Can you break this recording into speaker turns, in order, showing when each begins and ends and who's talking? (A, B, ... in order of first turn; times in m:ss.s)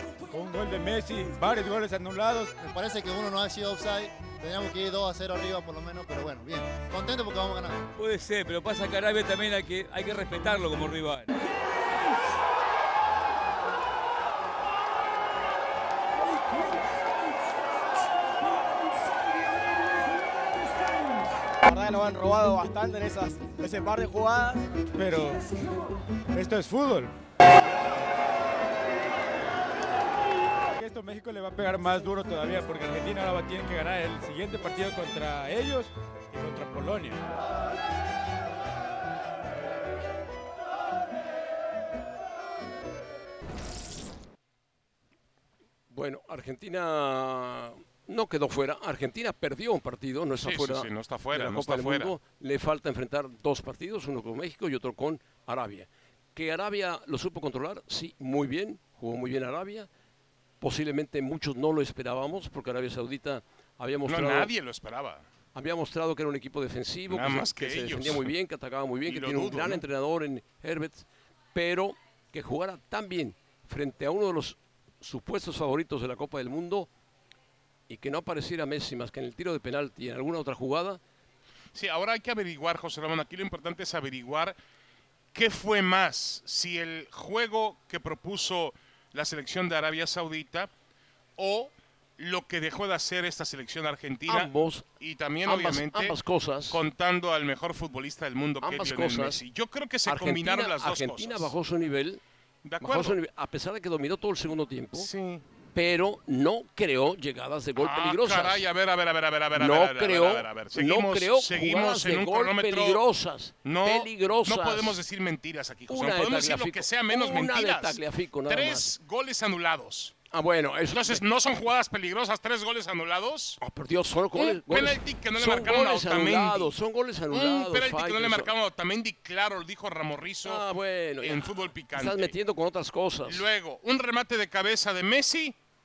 0:00.3-0:02.5 A
0:02.6-0:07.8 B
0:08.0-0:11.3 C
0:21.7-0:24.8 D
0:25.0-0:25.4 A
0:26.3-0:27.1 A
0:30.8-0:37.2 A
0:45.9-0:59.9 E
0:50.4-0:52.1 F
1:00.6-1:04.5 E
1:04.0-1:05.2 F
1:05.5-1:16.9 E
1:07.1-1:08.3 F
1:09.0-1:09.8 F
1:17.9-1:21.0 E
1:21.7-1:24.6 F
1:25.3-1:30.7 F
1:31.4-1:36.2 F
1:34.3-1:34.8 E
1:35.4-1:36.8 E
1:36.7-1:41.5 F
1:38.6-1:39.4 E
1:40.0-1:42.2 E
1:42.6-1:43.2 F
1:42.8-1:45.1 E
1:45.0-1:45.4 F
1:45.7-1:48.6 E
1:47.8-1:53.0 F
1:49.5-1:55.0 E
1:53.6-2:00.2 F
1:55.9-1:58.9 E
2:00.3-2:01.2 E
2:00.9-2:03.6 F
2:03.6-2:08.5 E
2:04.3-2:06.7 F
2:07.3-2:10.6 F
2:10.4-2:13.4 E
2:11.2-2:12.3 F
2:13.2-2:15.5 F